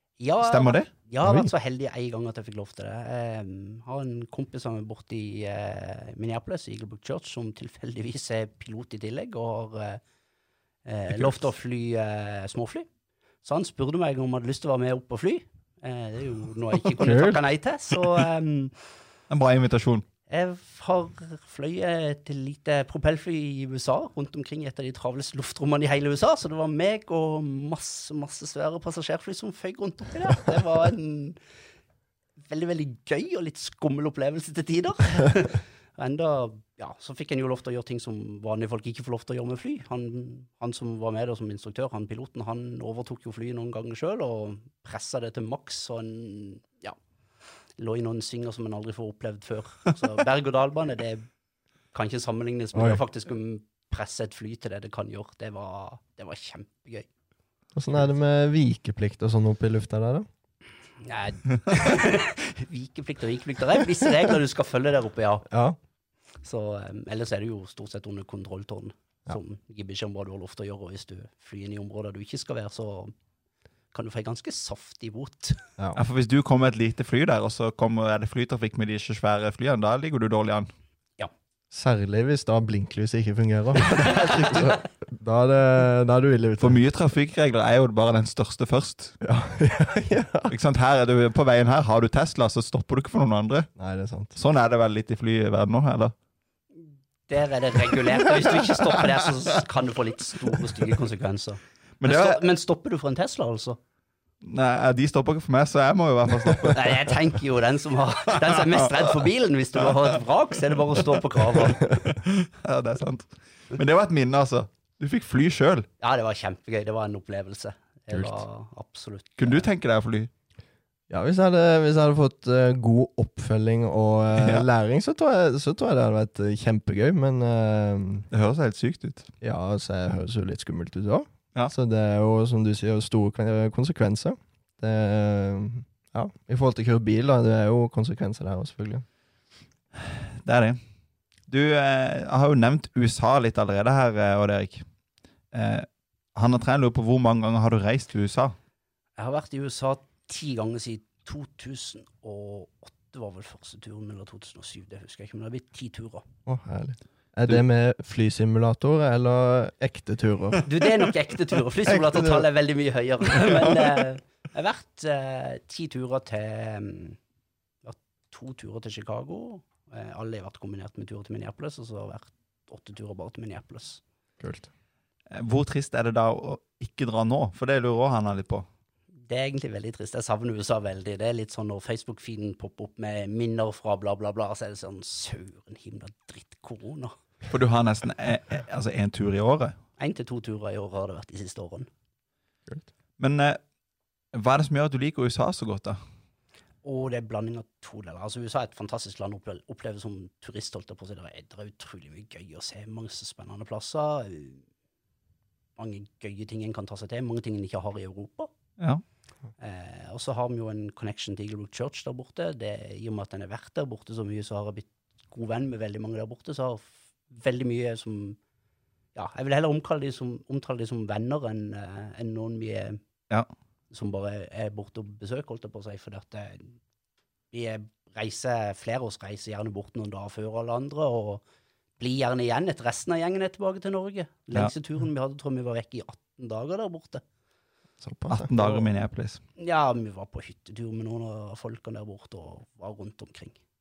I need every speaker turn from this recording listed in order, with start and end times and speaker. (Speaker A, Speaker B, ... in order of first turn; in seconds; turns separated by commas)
Speaker A: 0.2-10.0, Speaker B: 0.4-0.9, Speaker C: 1.2-1.5, Speaker A: 10.8-12.8, Speaker A: 13.4-18.8, Speaker C: 16.8-17.4, Speaker B: 19.3-20.1, Speaker A: 20.3-31.4, Speaker A: 32.4-46.9, Speaker A: 47.8-51.3, Speaker A: 51.9-57.1, Speaker C: 52.7-53.0, Speaker C: 57.7-60.3, Speaker A: 61.0-65.5, Speaker C: 65.5-65.8, Speaker A: 66.4-73.1, Speaker A: 73.9-75.6, Speaker B: 75.9-80.7, Speaker C: 81.7-86.8, Speaker A: 83.9-84.8, Speaker B: 86.6-89.2, Speaker C: 89.2-90.5, Speaker B: 90.5-93.7, Speaker C: 93.8-94.3, Speaker B: 94.3-96.1, Speaker A: 96.8-103.8, Speaker B: 102.0-102.4, Speaker B: 104.4-107.1, Speaker A: 106.7-111.9, Speaker B: 111.0-115.9, Speaker A: 116.0-119.7, Speaker C: 118.1-118.4, Speaker B: 119.4-120.3, Speaker C: 121.1-128.3, Speaker B: 124.3-124.7, Speaker B: 128.3-129.3, Speaker C: 129.4-139.0, Speaker B: 139.9-140.8, Speaker B: 141.5-144.8, Speaker B: 145.5-148.6, Speaker A: 149.2-156.2, Speaker C: 156.4-160.6, Speaker A: 160.6-167.2, Speaker C: 161.9-162.4, Speaker A: 167.8-174.0, Speaker C: 174.4-174.7, Speaker B: 175.3-178.7, Speaker A: 179.3-187.2, Speaker B: 187.5-189.8, Speaker A: 190.0-191.9, Speaker B: 193.2-193.6, Speaker B: 194.3-196.0, Speaker A: 196.8-204.6, Speaker A: 205.8-208.5, Speaker A: 209.6-218.4, Speaker A: 219.1-223.0, Speaker A: 223.9-226.8, Speaker A: 227.5-231.4, Speaker A: 232.0-237.2, Speaker C: 238.0-238.8, Speaker B: 238.3-239.4, Speaker A: 239.6-243.6